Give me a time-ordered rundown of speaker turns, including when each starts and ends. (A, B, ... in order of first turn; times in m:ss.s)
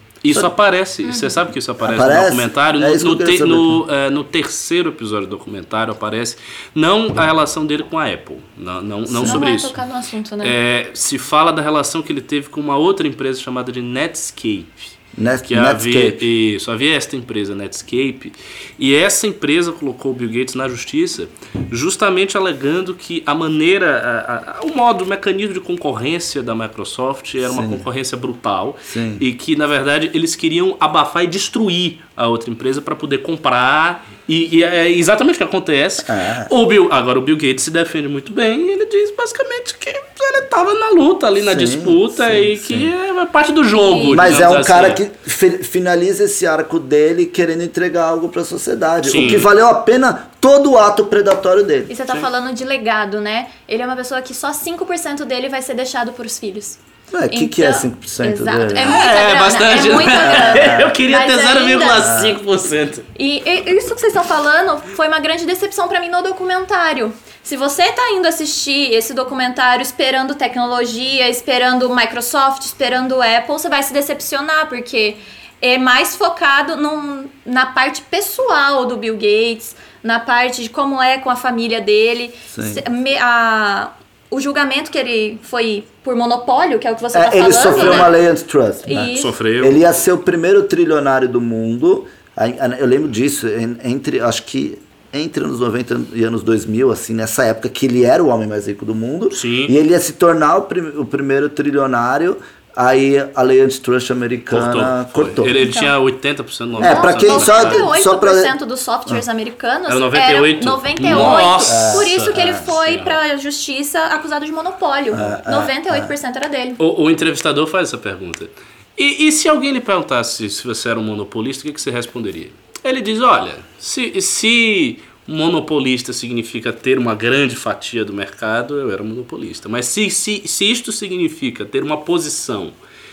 0:00.2-0:09.8 A
0:01.0-0:01.3 B
0:01.8-0:03.8 C
0:09.1-0:09.5 C
0:09.2-0:10.6 B
0:10.4-0:14.9 A
0:15.2-0:16.2 C
0:15.4-0:45.0 A
0:27.4-0:27.8 C
0:28.9-0:29.2 C
0:36.0-0:36.5 C
0:41.4-0:42.9 C
0:43.8-0:44.3 B
0:44.1-0:51.9 C
0:49.0-0:49.5 A
0:51.9-0:56.8 B
0:57.1-0:59.1 C
0:57.3-1:02.1 B
0:58.8-1:03.1 A
1:00.2-1:01.0 C
1:02.0-1:02.4 C
1:03.1-1:28.1 B
1:22.5-1:22.8 C
1:27.1-1:45.5 C
1:27.7-1:28.1 A
1:28.8-1:29.3 B
1:29.0-1:29.8 A
1:39.3-1:39.7 A
1:44.5-1:47.8 A
1:45.6-1:45.9 B
1:46.8-1:48.5 C
1:46.8-1:56.8 B
1:49.9-1:53.2 A
1:51.1-1:52.7 C
1:55.1-1:56.1 C
1:55.2-1:55.4 A
1:56.8-2:12.8 A